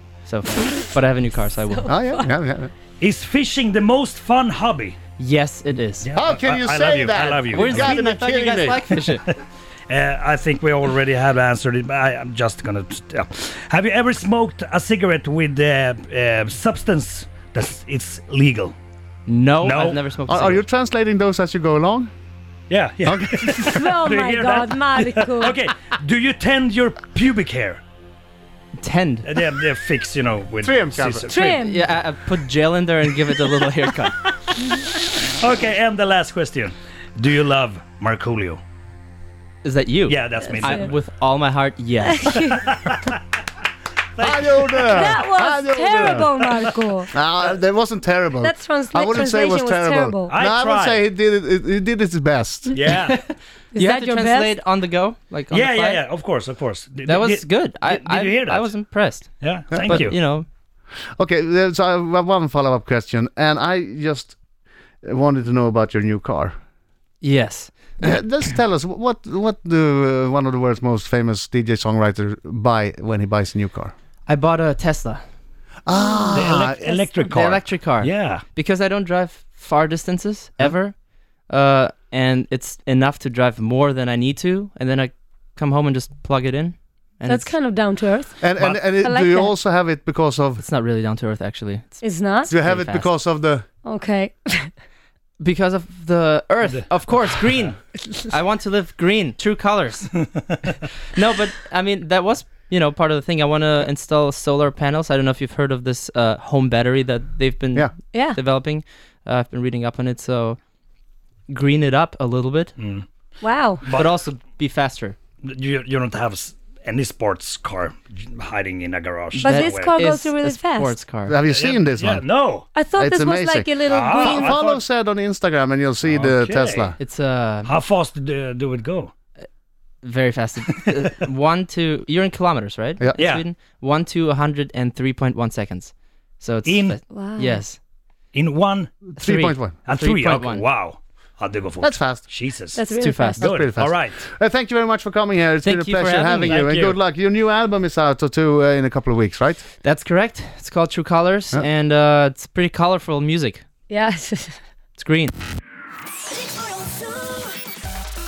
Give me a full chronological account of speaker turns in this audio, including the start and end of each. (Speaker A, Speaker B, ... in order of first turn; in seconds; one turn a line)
Speaker A: 0.2-1.9
Speaker B: 1.6-2.3
Speaker C: 1.8-2.7
Speaker D: 3.0-5.0
Speaker A: 5.2-6.1
Speaker D: 6.0-8.0
Speaker C: 6.2-9.0
Speaker A: 7.5-9.2
Speaker D: 8.9-18.7
Speaker A: 19.2-20.6
Speaker D: 19.6-20.0
Speaker C: 20.3-22.1
Speaker D: 22.7-27.8
Speaker C: 23.0-23.6
Speaker B: 23.5-25.6
Speaker A: 28.8-29.2
Speaker D: 29.2-31.6
Speaker C: 30.6-31.4
Speaker B: 31.3-31.8
Speaker A: 31.6-34.2
Speaker D: 35.0-38.6
Speaker A: 39.6-42.5
Speaker D: 40.1-40.9
Speaker B: 40.5-40.9
Speaker B: 42.1-42.7
Speaker D: 42.6-43.2
Speaker D: 44.1-45.2
Speaker C: 44.2-46.5
Speaker B: 44.9-47.1
Speaker D: 46.1-46.5
Speaker C: 47.1-52.7
Speaker B: 48.4-50.4
Speaker D: 50.3-51.0
Speaker D: 52.7-53.2
Speaker A: 53.0-56.1
Speaker B: 53.7-54.6
Speaker D: 55.5-60.2
Speaker A: 57.0-60.5
Speaker C: 59.7-60.1
Speaker C: 61.2-64.4
Speaker C: 65.0-66.5
Speaker A: 67.2-68.2
Speaker C: 68.0-73.9
Speaker A: 74.3-75.2
Speaker C: 75.8-77.0
Speaker B: 76.0-76.4
Speaker D: 76.3-78.4
Speaker A: 77.3-81.0
Speaker A: 81.5-87.5
Speaker B: 87.2-88.4
Speaker C: 88.4-90.6
Speaker D: 88.6-88.8
Speaker B: 89.0-89.5
Speaker A: 90.6-93.1
Speaker B: 92.0-92.5
Speaker C: 92.5-93.7
Speaker B: 93.8-94.8
Speaker A: 95.4-100.3
Speaker A: 101.1-110.6
Speaker A: 111.5-112.7
Speaker D: 112.8-113.0
Speaker B: 113.4-113.8
Speaker D: 113.8-114.2
Speaker A: 113.9-115.2
Speaker D: 115.4-120.0
Speaker A: 119.3-121.3
Speaker B: 119.4-121.0
Speaker C: 121.2-122.2
Speaker D: 121.5-122.7
Speaker B: 122.7-124.6
Speaker C: 123.0-127.0
Speaker D: 123.8-124.8
Speaker D: 126.0-127.0
Speaker A: 127.0-127.7
Speaker D: 127.6-129.1
Speaker A: 130.0-137.8
Speaker D: 133.2-133.4
Speaker D: 136.6-137.0
Speaker B: 137.1-137.6
Speaker D: 138.3-139.0
Speaker C: 139.1-139.8
Speaker A: 139.2-140.6
Speaker D: 139.8-144.2
Speaker C: 141.8-142.3
Speaker B: 142.7-143.4
Speaker A: 143.0-143.4
Speaker C: 143.4-149.6
Speaker A: 145.6-146.6
Speaker D: 146.4-147.0
Speaker A: 149.8-153.6
Speaker B: 153.9-154.6
Speaker A: 154.9-155.3
Speaker B: 156.4-157.5